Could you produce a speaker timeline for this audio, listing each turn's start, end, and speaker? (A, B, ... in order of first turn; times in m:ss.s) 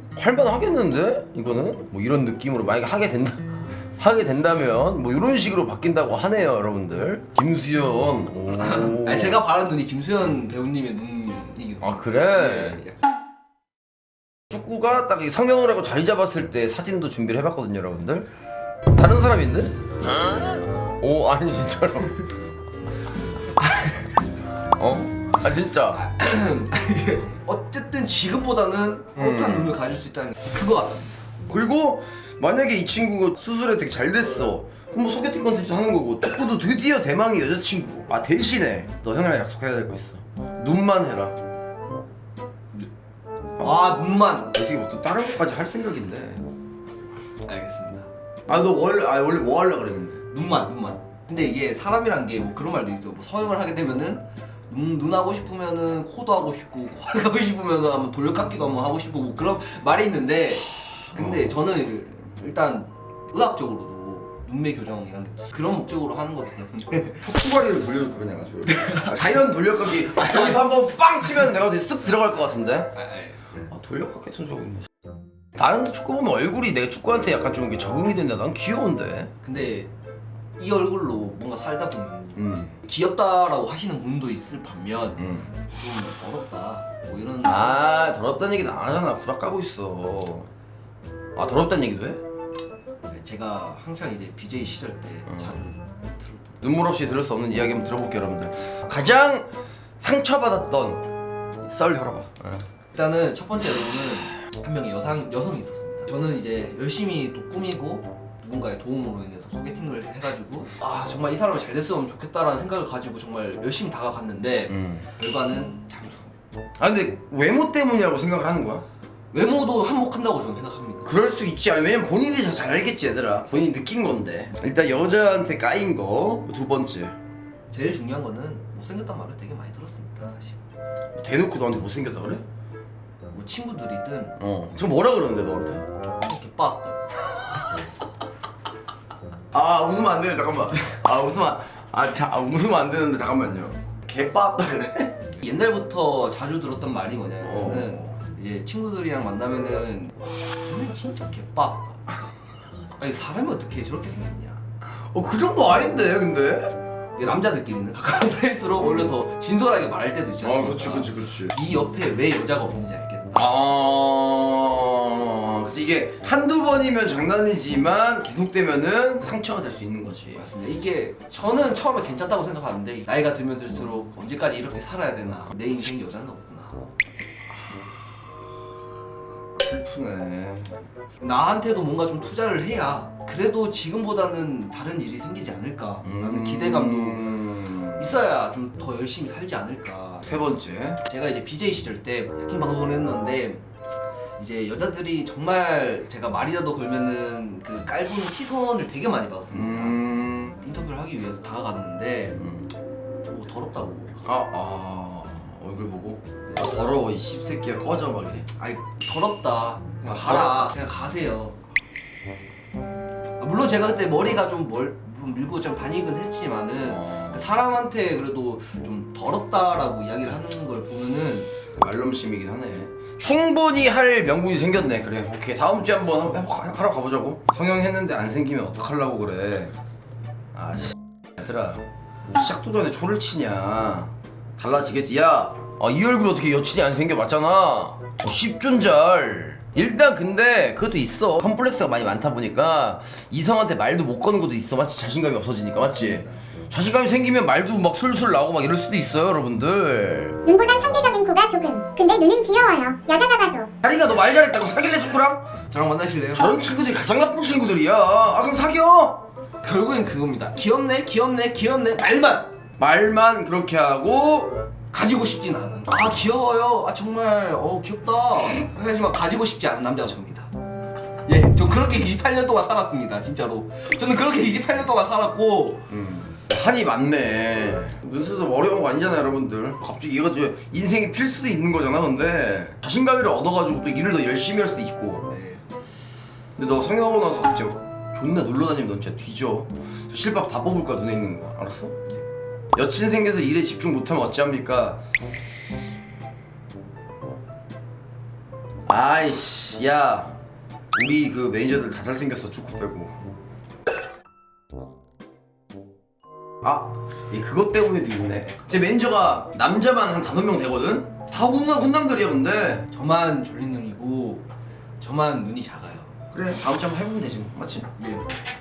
0:00.1-0:09.4 A
0:08.5-0:13.0 B
0:11.8-0:12.8 A
0:14.5-0:18.3 A
0:18.9-0:22.3 A
0:23.6-0:24.1 B
0:24.8-0:26.1 A
0:25.9-0:31.2 B
0:29.2-0:29.7 A
0:31.5-0:41.4 A
0:43.6-0:44.5 B
0:44.4-0:46.4 A
0:47.4-0:48.1 B
0:48.5-0:50.2 A
0:50.3-1:07.2 B
1:07.1-1:13.0 A
1:08.7-1:10.6 B
1:13.0-1:13.7 B
1:13.7-1:14.9 A
1:15.6-1:19.3 A
1:19.4-1:19.9 B
1:20.6-1:27.9 B
1:22.4-1:22.7 A
1:25.2-1:25.5 A
1:27.4-1:30.5 A
1:31.4-1:32.2 A
1:33.1-1:36.7 B
1:36.6-1:39.5 A
1:40.0-1:41.1 A
1:41.6-1:42.6 A
1:42.9-1:56.3 B
1:54.7-1:55.0 A
1:56.8-1:58.8 A
1:59.3-2:01.1 B
2:01.0-2:07.2 A
2:07.7-2:10.6 B
2:11.2-2:12.4 A
2:13.3-2:14.4 B
2:14.4-2:15.8 A
2:16.1-2:17.1 B
2:19.5-2:25.3 A
2:25.4-2:32.1 B
2:27.4-2:27.9 A
2:33.0-2:34.6 B
2:34.9-2:36.8 A
2:37.2-2:43.4 B
2:40.4-2:41.5 A
2:43.3-2:50.5 A
2:50.3-2:56.8 B
2:59.6-3:00.8 A
3:01.2-3:13.6 B
3:06.0-3:08.1 A
3:10.2-3:11.0 A
3:14.4-3:20.0 B
3:19.5-3:20.6 A
3:20.6-3:22.4 B
3:22.4-3:22.7 A
3:23.2-3:24.2 B
3:24.2-3:28.5 A
3:28.6-3:31.6 B
3:30.0-3:30.7 A
3:33.4-3:41.5 B
3:36.8-3:37.4 A
3:41.7-3:49.7 A
3:50.5-4:10.4 A
4:10.4-4:13.7 C
4:13.8-4:15.5 A
4:15.7-4:16.6 B
4:16.3-4:19.2 A
4:19.6-4:22.5 B
4:22.8-4:24.5 A
4:24.9-4:30.5 B
4:31.2-4:35.9 B
4:35.9-4:45.3 A
4:45.3-4:45.6 B
4:46.6-4:52.0 A
4:52.8-4:55.0 A
4:58.9-5:00.4 A
5:00.9-5:03.2 A
5:06.6-5:12.9 A
5:12.9-5:14.4 B
5:15.0-5:16.2 B
5:16.3-5:17.9 A
5:18.0-5:18.3 B